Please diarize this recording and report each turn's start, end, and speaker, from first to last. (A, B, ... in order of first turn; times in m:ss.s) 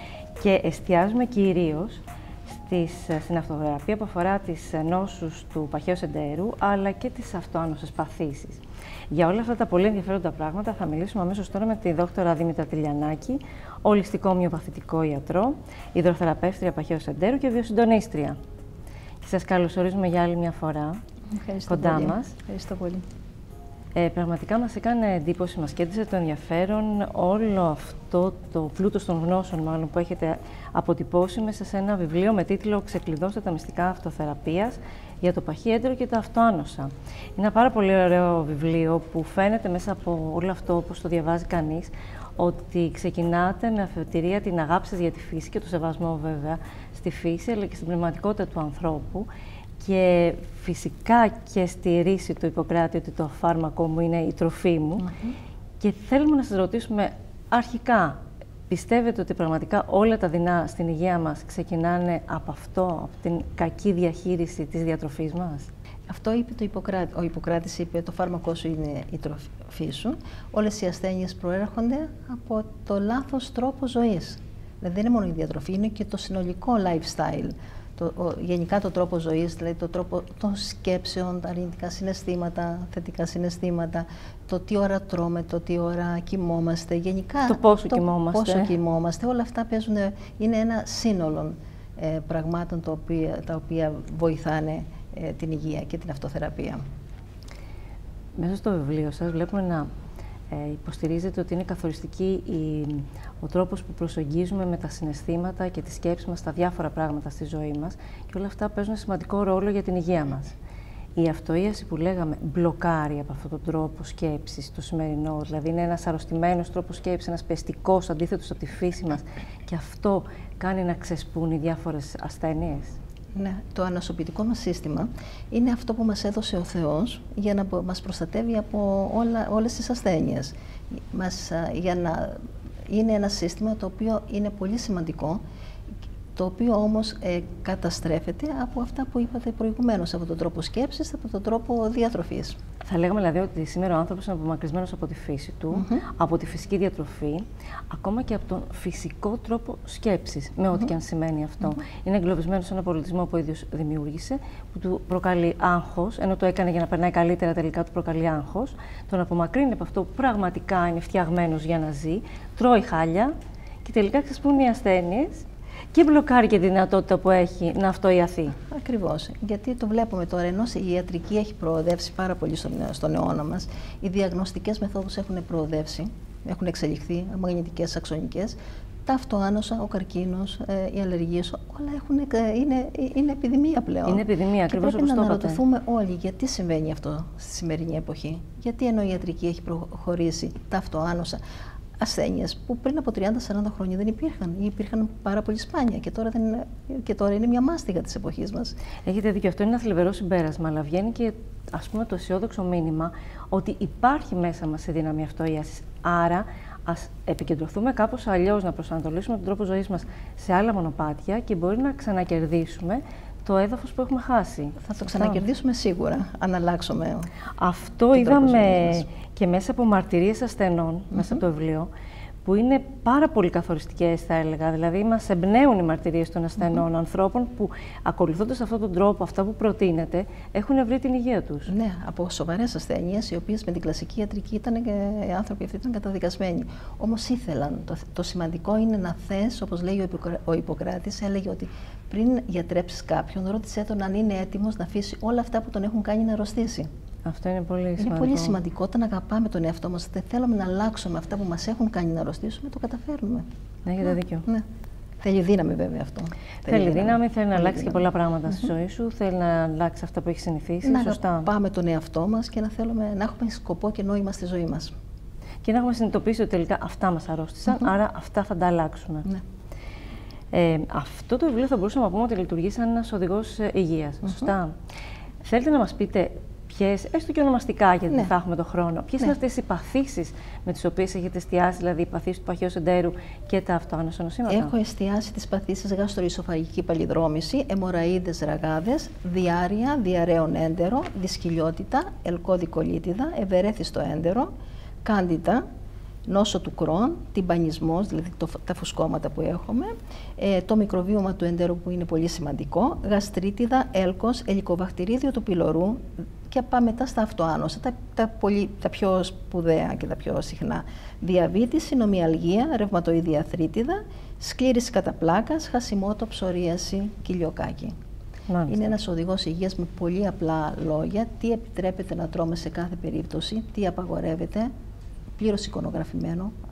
0:00.4-0:18.4 A
0:19.2-0:21.0 A
0:21.3-0:23.0 B
0:21.7-0:22.4 A
0:23.9-0:49.3 A
0:49.8-0:55.1 A
0:55.0-0:55.3 B
0:55.8-1:05.7 A
1:06.1-1:36.8 B
1:27.5-1:28.7 A
1:38.4-1:39.9 A
1:40.5-1:50.6 A
1:51.2-2:03.0 A
2:03.3-2:15.4 B
2:16.4-2:22.6 B
2:22.8-2:43.3 A
2:25.7-2:26.0 B
2:43.8-2:48.6 A
2:48.6-3:11.4 B
3:04.0-3:05.6 A
3:12.0-3:18.8 B
3:19.0-3:35.4 A
3:34.8-3:37.3 B
3:37.6-3:41.9 A
3:38.1-3:39.0 B
3:41.1-3:41.4 B
3:42.4-3:51.7 A
3:51.7-4:06.9 B
4:07.2-4:08.6 A
4:08.0-4:13.4 B
4:13.8-4:14.4 A
4:14.0-4:14.6 B
4:15.2-4:18.0 B
4:16.6-4:21.5 A
4:20.8-4:24.9 B
4:25.6-4:29.3 A
4:30.5-4:34.7 A
4:35.4-4:44.7 A
4:44.5-4:54.5 B
4:55.0-4:55.6 B
4:56.3-5:17.9 B
5:18.5-5:18.9 A
5:18.7-5:24.7 B
5:25.4-5:26.5 B